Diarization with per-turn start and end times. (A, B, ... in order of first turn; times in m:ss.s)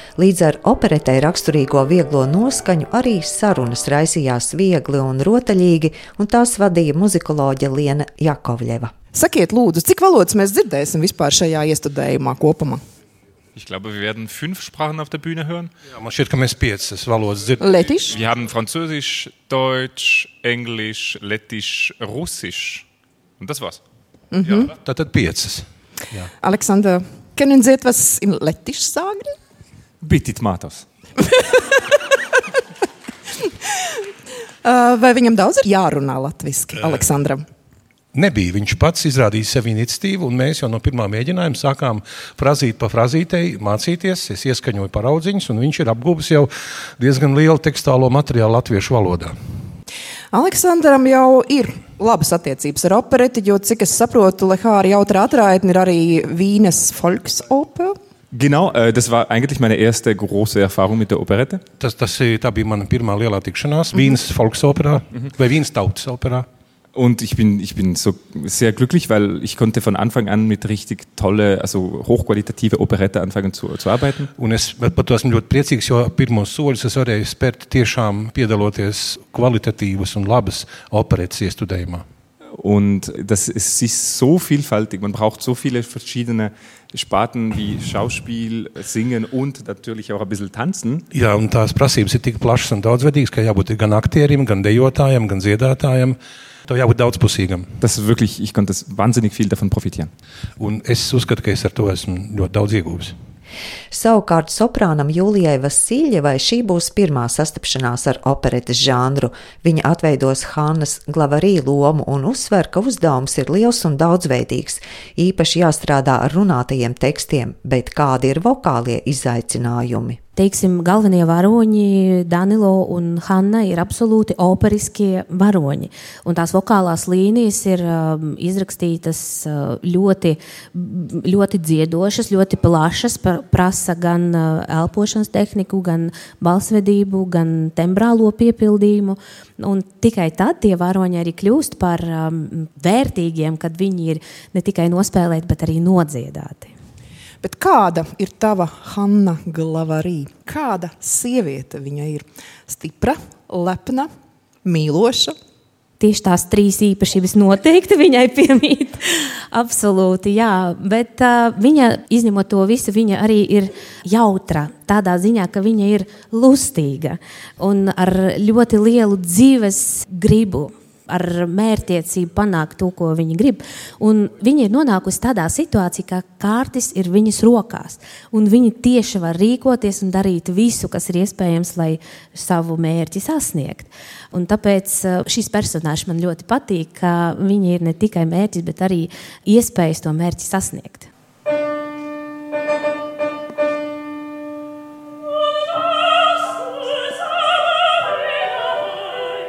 0:00.2-0:08.9 A
0:09.1-0:12.8 B
0:13.5-0:15.7 C
0:15.9-0:17.6 D
0:17.6-0:18.2 B
0:18.0-0:22.8 C
0:23.4-0:23.8 C
0:24.3-0:24.7 B
0:24.8-0:26.3 D
0:26.4-0:29.4 B
0:30.0-0:30.8 C
0:34.6-0:37.4 B
0:38.1-0:49.3 D
0:50.3-0:58.0 B
0:58.3-1:01.6 C
1:01.8-1:06.4 D
1:06.9-1:14.3 C
1:14.4-1:22.0 D
1:22.5-1:31.0 C
1:31.1-1:36.2 D
1:36.7-1:37.7 D
1:37.8-1:40.1 C
1:40.6-1:43.1 D
1:43.9-2:00.2 A
2:00.4-2:26.7 E
2:27.4-2:34.1 B
2:34.6-2:35.4 B
2:36.0-3:11.1 E